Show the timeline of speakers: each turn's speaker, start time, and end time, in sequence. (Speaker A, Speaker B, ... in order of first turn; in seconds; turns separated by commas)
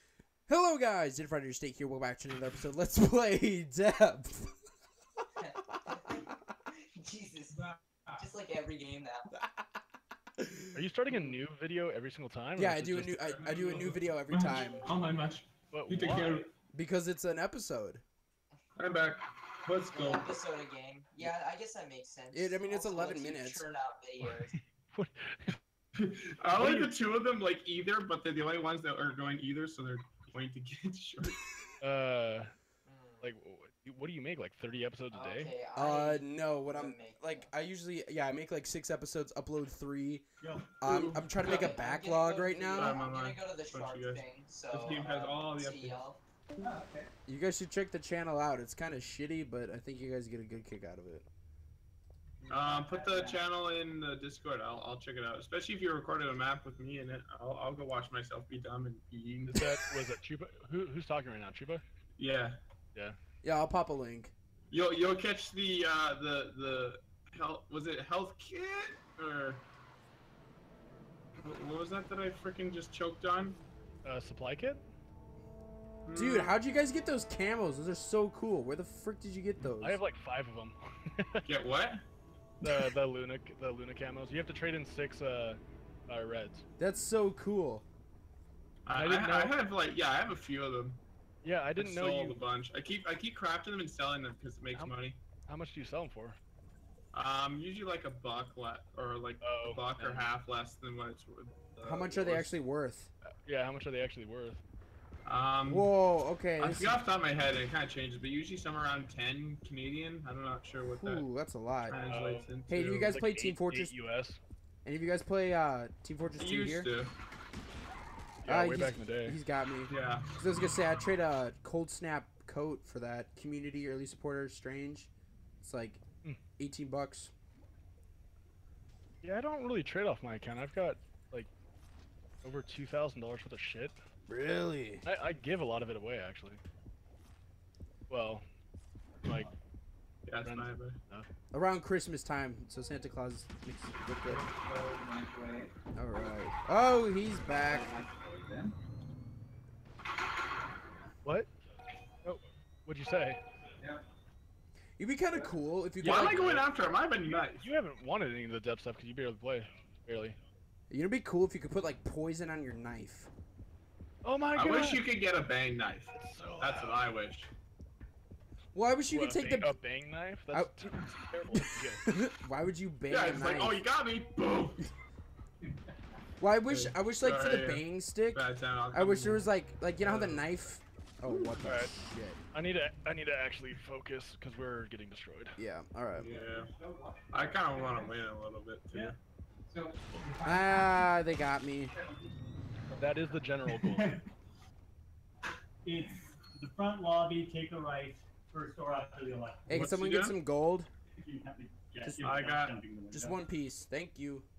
Speaker A: 0.5-4.6, Speaker B: 5.4-9.3, Speaker C: 7.6-8.2, Speaker A: 10.4-10.8, Speaker D: 10.7-13.3, Speaker A: 12.6-14.9, Speaker C: 13.3-16.5, Speaker D: 15.7-16.4, Speaker A: 16.7-18.0, Speaker C: 18.8-20.3, Speaker B: 19.9-24.5, Speaker A: 22.3-23.6, Speaker D: 24.2-25.6, Speaker C: 26.0-31.4, Speaker D: 26.5-26.9, Speaker D: 31.8-32.5, Speaker B: 32.9-33.3, Speaker D: 33.2-35.5, Speaker B: 35.1-37.5, Speaker A: 35.7-40.2, Speaker E: 40.4-40.8, Speaker A: 40.8-43.0, Speaker C: 40.8-41.7, Speaker B: 41.4-46.2, Speaker C: 42.7-46.0, Speaker E: 46.6-47.1, Speaker A: 47.2-51.3, Speaker C: 52.5-59.7, Speaker E: 52.5-53.4, Speaker D: 59.5-61.8, Speaker C: 62.2-62.6, Speaker A: 63.4-64.3, Speaker C: 64.7-69.6, Speaker C: 71.4-73.6, Speaker D: 74.0-74.8, Speaker C: 76.0-76.6, Speaker A: 76.1-80.0, Speaker D: 79.8-81.4, Speaker C: 81.5-82.0, Speaker D: 82.6-86.6, Speaker A: 86.8-87.9, Speaker C: 88.9-91.0, Speaker D: 88.9-89.5, Speaker D: 91.4-92.4, Speaker C: 91.8-95.2, Speaker D: 94.7-96.4, Speaker C: 97.1-102.5, Speaker D: 99.4-100.4, Speaker A: 101.8-103.1, Speaker D: 103.4-104.6, Speaker C: 105.2-105.9, Speaker A: 105.6-107.0, Speaker C: 106.6-111.2, Speaker A: 111.0-112.0, Speaker C: 111.8-113.0, Speaker D: 112.0-114.4, Speaker A: 112.7-113.9, Speaker A: 114.8-116.9, Speaker C: 116.4-117.1, Speaker D: 118.4-119.4, Speaker A: 118.5-126.0, Speaker C: 119.9-120.3, Speaker A: 126.6-127.3, Speaker D: 129.2-131.5, Speaker D: 132.4-133.9, Speaker A: 134.3-135.1, Speaker D: 135.0-136.6, Speaker D: 138.1-138.4, Speaker D: 139.2-139.5, Speaker C: 140.3-141.0, Speaker D: 140.4-141.3, Speaker A: 141.5-144.4, Speaker E: 144.2-145.7, Speaker A: 145.9-147.9, Speaker E: 147.5-148.8, Speaker D: 151.2-151.5, Speaker D: 152.2-153.4, Speaker A: 155.0-156.4, Speaker D: 156.0-156.7, Speaker C: 156.0-157.7, Speaker D: 157.2-160.4, Speaker A: 160.9-163.3, Speaker D: 164.2-165.0, Speaker C: 164.5-167.5, Speaker D: 166.1-167.1, Speaker A: 168.7-169.8, Speaker D: 169.1-172.1, Speaker A: 170.5-170.9, Speaker A: 171.5-173.8, Speaker C: 173.1-174.8, Speaker E: 175.6-175.9, Speaker A: 176.4-182.4, Speaker C: 176.7-179.5, Speaker D: 180.0-180.5, Speaker C: 181.4-181.8, Speaker D: 181.6-181.9, Speaker D: 182.5-185.6, Speaker A: 185.6-186.3, Speaker C: 186.2-186.7, Speaker E: 186.2-188.2, Speaker C: 187.3-189.2, Speaker E: 189.7-191.2, Speaker A: 190.4-191.9, Speaker E: 192.0-192.3, Speaker D: 192.9-194.2, Speaker E: 192.9-194.3, Speaker E: 195.8-199.8, Speaker A: 199.7-200.9, Speaker C: 199.7-200.4, Speaker E: 201.2-203.4, Speaker A: 202.0-202.3, Speaker C: 202.2-202.8, Speaker A: 203.1-204.5